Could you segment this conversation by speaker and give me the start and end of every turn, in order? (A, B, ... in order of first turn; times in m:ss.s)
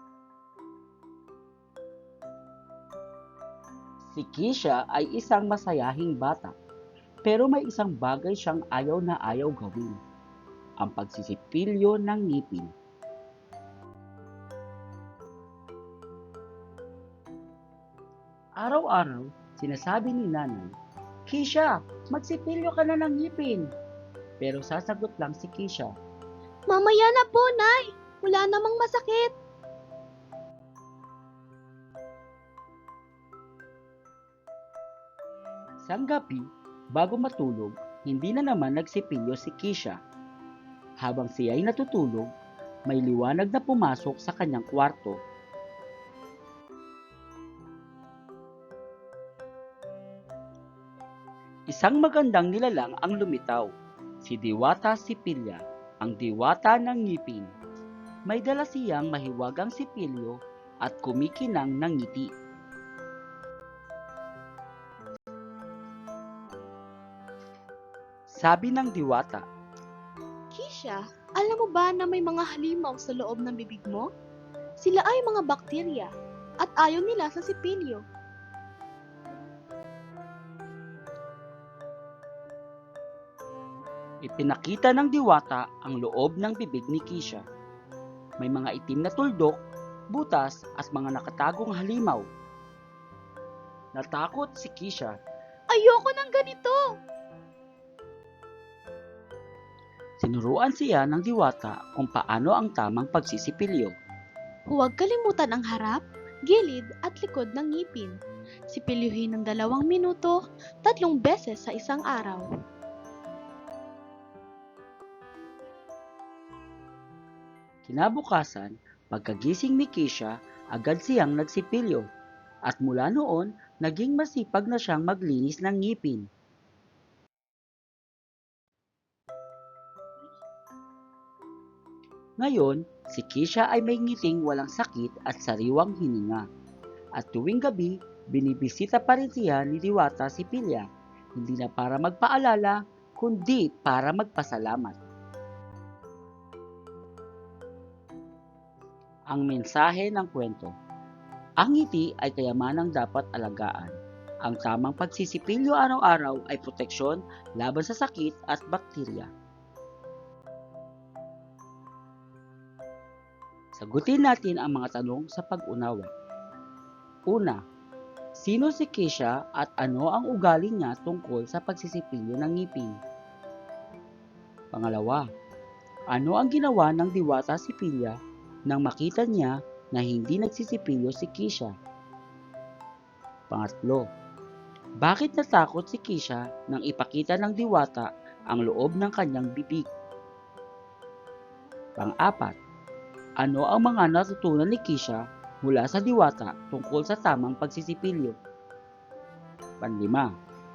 0:04.1-0:06.5 A
0:07.2-0:10.0 A
0:10.8-0:12.7 A
0:18.6-0:20.7 A
0:21.3-0:23.7 A
0:24.4-0:25.9 A
0:26.7-0:29.3 B
0:35.9-0:36.4 A
0:36.9-0:40.0 A
0:41.0-0:42.3 A
0:42.9-0:45.2 A
0:51.7-0:53.7 A
0:54.2-0:57.5 A
0:58.3-1:02.3 A
1:08.4-1:09.4 A
1:10.5-1:14.1 B
1:14.8-1:16.1 B
1:16.6-1:18.0 B
1:24.2-1:27.4 A
1:28.4-1:29.6 A
1:30.1-1:32.2 A
1:34.0-1:35.2 A
1:35.7-1:36.8 B
1:40.2-1:43.9 A
1:44.7-1:48.1 B
1:48.7-1:52.4 B
1:57.8-2:02.0 A
2:02.7-2:06.3 A
2:12.4-2:16.4 A
2:17.2-2:25.0 A
2:29.3-2:30.7 A
2:31.6-2:39.3 A
2:43.8-2:46.1 A
2:47.3-2:47.6 A
2:48.4-2:53.0 A
2:54.7-2:55.2 A
2:56.1-2:58.2 A
2:58.7-3:01.7 A
3:03.5-3:04.0 A
3:05.0-3:09.9 A
3:12.0-3:12.5 A
3:13.4-3:18.4 A
3:19.8-3:20.3 A